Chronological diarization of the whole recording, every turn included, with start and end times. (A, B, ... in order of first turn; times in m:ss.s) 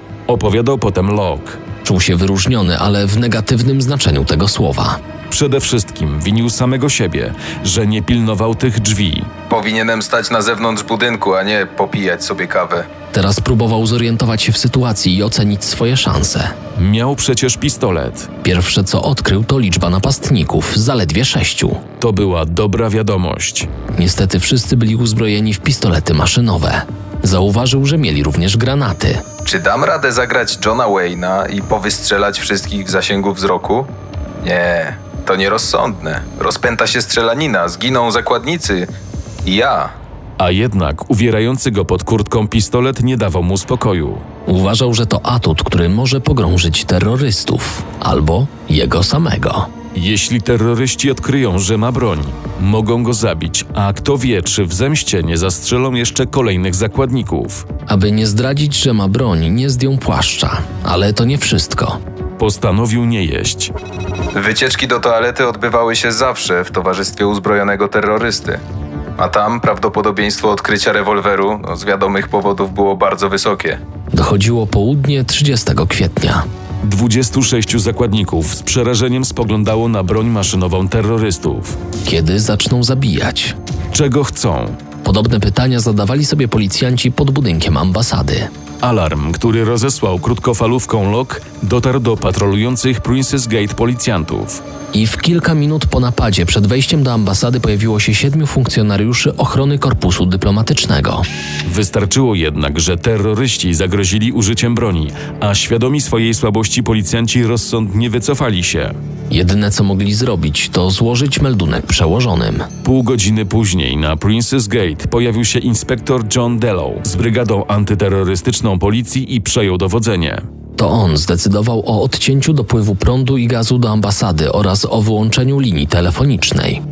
0:00.3-0:01.6 A
0:01.8-0:05.0 B
0:05.3-0:09.3 A
0:09.5-0:12.9 C
0:13.1-0:16.5 B
0:16.8-0:18.3 A
0:18.4-0:21.8 B
0:22.0-0:23.7 A
0:23.9-0:29.2 B
0:29.4-0:33.9 C
0:34.4-0:38.9 C
0:39.4-0:39.9 C
0:40.4-0:44.2 A
0:44.5-0:49.7 B
0:49.9-0:57.7 A
0:57.9-1:02.0 B
1:02.4-1:03.7 A
1:04.3-1:08.6 C
1:09.2-1:13.8 C
1:14.1-1:16.4 B
1:16.8-1:21.8 A
1:22.0-1:23.6 B
1:23.9-1:24.8 A
1:25.0-1:28.5 B
1:28.8-1:34.6 A
1:34.9-1:41.2 B
1:41.6-1:49.0 A
1:49.3-1:52.7 B
1:52.8-2:00.4 A
2:00.8-2:06.8 B